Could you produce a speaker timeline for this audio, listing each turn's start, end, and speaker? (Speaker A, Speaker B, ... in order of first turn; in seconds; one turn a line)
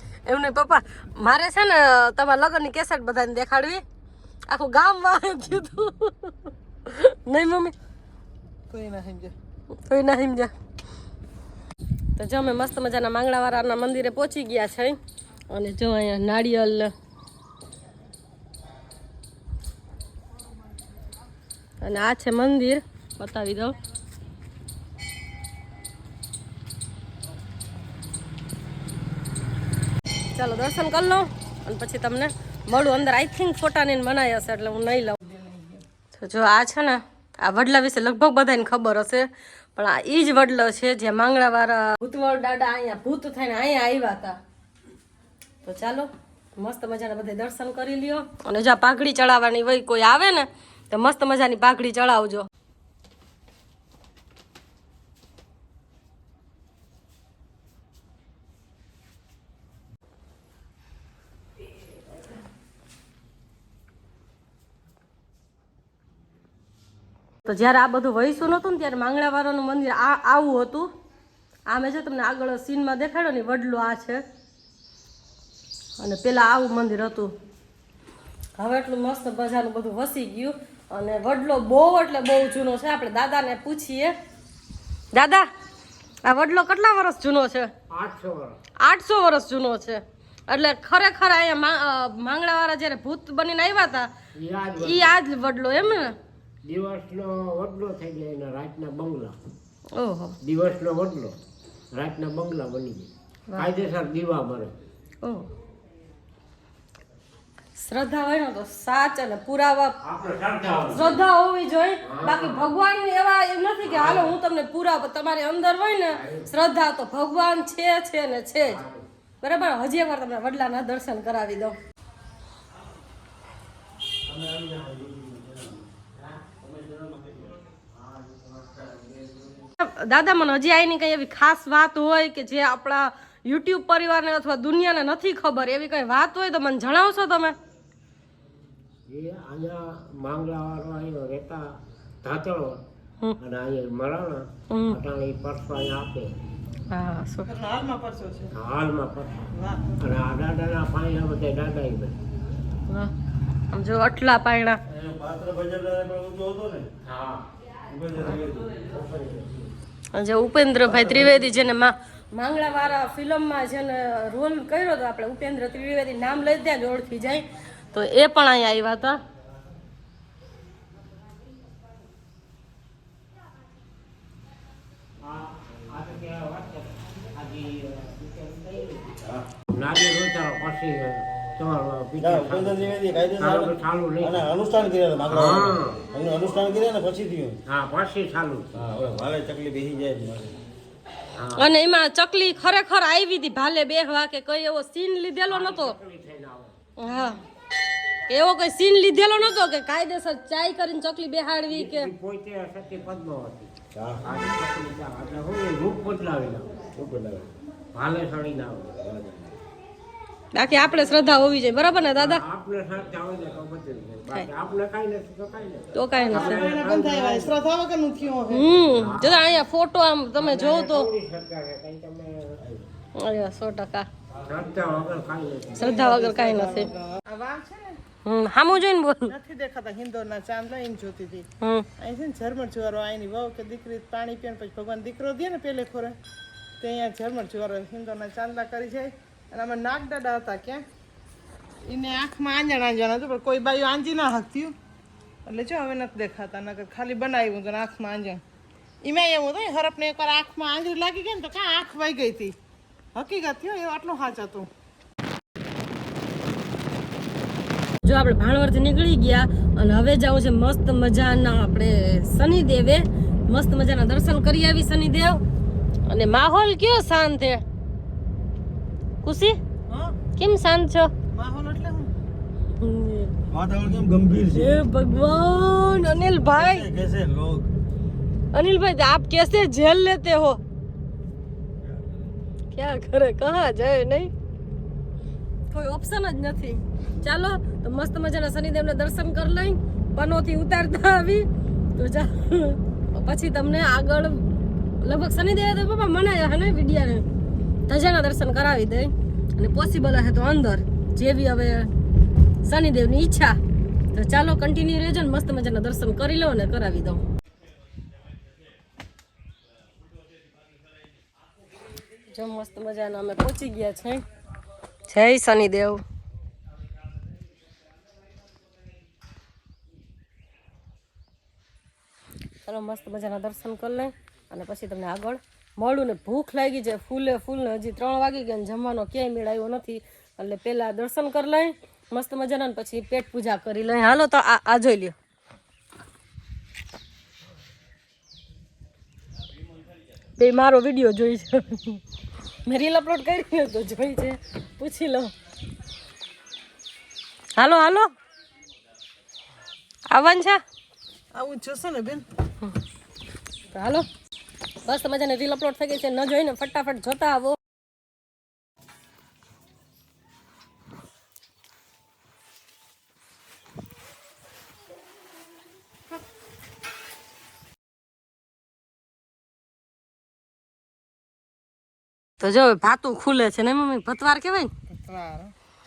Speaker A: 0.2-3.8
Speaker A: 4.5-7.7
Speaker B: 8.7-9.3
Speaker A: 9.8-10.5
Speaker A: 12.2-15.0
Speaker A: 15.5-16.9
Speaker A: 21.8-23.8
Speaker A: 30.3-35.2
Speaker B: 35.2-35.8
Speaker A: 36.1-44.4
Speaker A: 45.6-52.5
Speaker A: 67.4-70.9
Speaker A: 71.7-74.2
Speaker A: 76.0-77.3
Speaker A: 78.5-84.1
Speaker A: 85.1-85.5
Speaker A: 86.2-87.7
Speaker C: 87.9-88.6
Speaker A: 88.8-94.1
Speaker C: 94.3-95.1
Speaker A: 94.8-96.2
Speaker C: 96.6-99.4
Speaker A: 99.9-100.3
Speaker C: 100.4-101.4
Speaker C: 101.9-104.8
Speaker A: 105.2-105.5
Speaker A: 107.8-110.0
Speaker C: 110.0-111.2
Speaker A: 110.8-118.8
Speaker C: 112.0-112.7
Speaker C: 113.8-114.3
Speaker C: 116.2-116.5
Speaker C: 118.7-119.0
Speaker A: 119.4-121.8
Speaker D: 124.2-125.9
Speaker D: 126.5-127.6
Speaker C: 128.1-129.5
Speaker A: 129.8-137.6
Speaker C: 139.1-142.8
Speaker C: 143.4-146.4
Speaker A: 144.7-145.0
Speaker A: 146.9-147.5
Speaker B: 147.4-148.5
Speaker C: 148.5-152.2
Speaker B: 149.5-149.9
Speaker A: 153.7-154.8
Speaker D: 154.9-156.9
Speaker C: 157.0-157.5
Speaker D: 157.8-158.9
Speaker A: 160.1-169.2
Speaker C: 175.2-184.5
Speaker D: 182.2-187.6
Speaker C: 185.3-186.0
Speaker C: 187.7-188.7
Speaker D: 188.7-190.6
Speaker C: 191.3-191.7
Speaker A: 191.5-196.0
Speaker C: 195.5-196.7
Speaker A: 197.0-197.4
Speaker A: 198.3-202.1
Speaker C: 201.7-207.0
Speaker D: 203.9-204.4
Speaker D: 207.0-207.5
Speaker C: 207.9-209.3
Speaker D: 209.1-209.5
Speaker A: 210.5-212.4
Speaker C: 212.2-217.6
Speaker A: 215.9-216.6
Speaker B: 216.2-218.7
Speaker A: 218.5-221.1
Speaker C: 218.8-219.4
Speaker C: 220.4-222.8
Speaker A: 223.1-224.1
Speaker C: 224.4-226.0
Speaker B: 225.8-228.0
Speaker A: 225.8-226.9
Speaker A: 228.2-229.3
Speaker B: 229.3-231.5
Speaker A: 231.6-231.9
Speaker B: 232.0-236.2
Speaker B: 236.8-240.8
Speaker B: 241.8-244.7
Speaker B: 245.4-248.4
Speaker B: 249.0-252.6
Speaker B: 253.1-254.7
Speaker A: 258.0-265.4
Speaker A: 266.1-267.6
Speaker A: 269.2-269.6
Speaker B: 269.9-270.1
Speaker A: 270.4-271.1
Speaker B: 271.3-272.1
Speaker A: 272.8-273.3
Speaker D: 273.5-274.8
Speaker A: 274.5-276.9
Speaker D: 276.4-277.7
Speaker A: 278.5-280.6
Speaker A: 282.7-284.3
Speaker A: 285.7-297.2
Speaker A: 297.9-301.9
Speaker A: 302.6-303.6
Speaker A: 304.1-307.2
Speaker A: 312.3-314.2
Speaker A: 315.1-316.0
Speaker A: 322.6-335.1
Speaker A: 340.4-342.0
Speaker A: 342.6-345.3
Speaker A: 347.6-348.1
Speaker A: 350.1-350.6
Speaker B: 351.3-352.2
Speaker A: 353.7-354.1
Speaker A: 354.8-357.6
Speaker A: 372.4-374.7
Speaker B: 374.9-375.5